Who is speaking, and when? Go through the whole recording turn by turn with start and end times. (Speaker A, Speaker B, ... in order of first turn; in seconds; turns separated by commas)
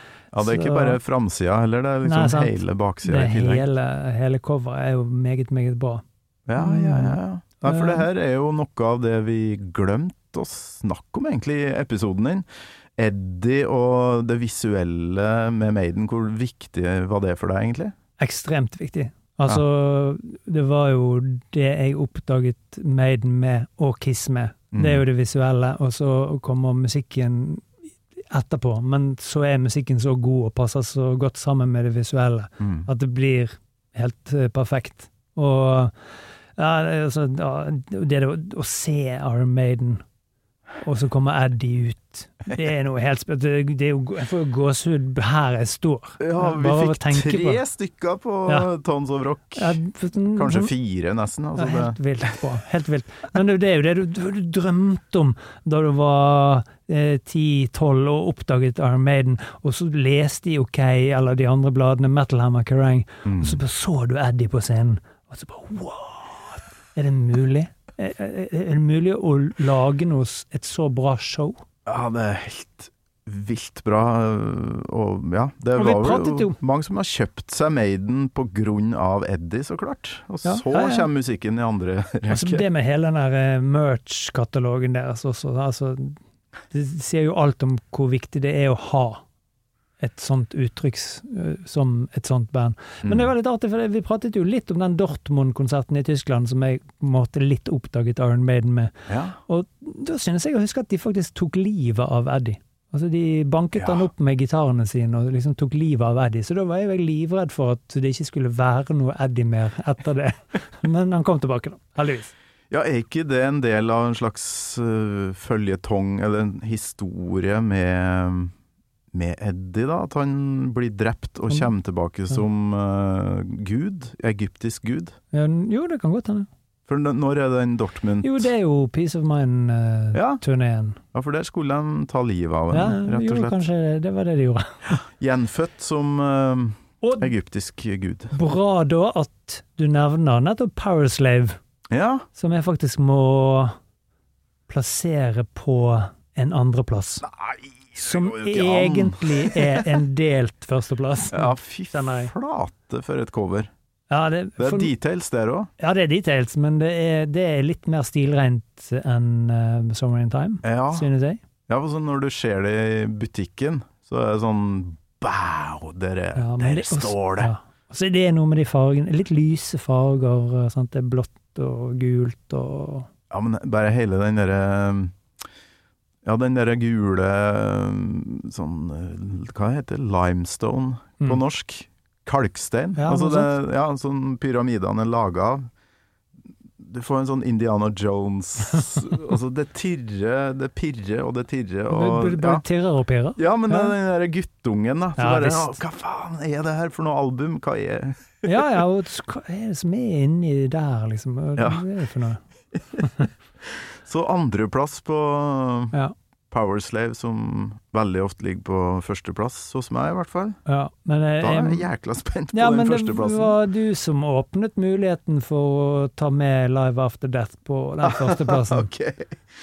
Speaker A: 0.3-3.7, Speaker B: 0.4-1.0, Speaker B: 2.0-6.0, Speaker A: 6.5-12.4, Speaker B: 6.6-8.1, Speaker A: 13.0-17.9, Speaker B: 18.2-27.6, Speaker A: 24.7-25.1, Speaker B: 28.3-36.0, Speaker A: 32.6-32.9, Speaker B: 36.6-40.0, Speaker B: 40.8-47.6, Speaker A: 46.2-49.8, Speaker B: 49.6-50.7, Speaker A: 50.3-52.0, Speaker B: 51.6-71.6, Speaker A: 63.2-63.6, Speaker A: 71.9-82.7, Speaker B: 75.8-76.6, Speaker B: 80.4-81.1, Speaker B: 82.3-86.2, Speaker B: 86.7-89.2, Speaker B: 90.0-112.3, Speaker A: 99.1-99.4, Speaker A: 103.8-104.1, Speaker A: 112.7-118.5, Speaker A: 119.1-125.2, Speaker B: 125.3-126.5, Speaker A: 126.9-128.5, Speaker B: 128.2-131.0, Speaker A: 130.1-130.4, Speaker A: 131.1-133.6, Speaker B: 132.7-134.8, Speaker A: 134.9-138.3, Speaker B: 137.0-137.3, Speaker B: 138.3-141.6, Speaker A: 141.9-142.2, Speaker B: 142.3-143.7, Speaker B: 144.7-147.3, Speaker A: 147.2-149.9, Speaker B: 147.9-152.3, Speaker A: 151.3-153.7, Speaker B: 154.1-154.9, Speaker A: 154.6-155.7, Speaker B: 155.8-161.4, Speaker A: 160.6-161.1, Speaker A: 161.7-167.5, Speaker B: 166.4-173.1, Speaker A: 173.3-175.1, Speaker A: 176.2-185.7, Speaker B: 183.0-183.6, Speaker A: 186.8-192.6, Speaker B: 191.9-193.9, Speaker A: 193.4-198.7, Speaker B: 195.2-195.8, Speaker B: 198.4-202.4, Speaker A: 201.6-201.9, Speaker B: 203.0-203.3, Speaker A: 204.1-205.9, Speaker A: 206.5-210.6, Speaker B: 210.6-211.9, Speaker A: 211.4-213.6, Speaker B: 212.5-218.9, Speaker A: 218.0-219.4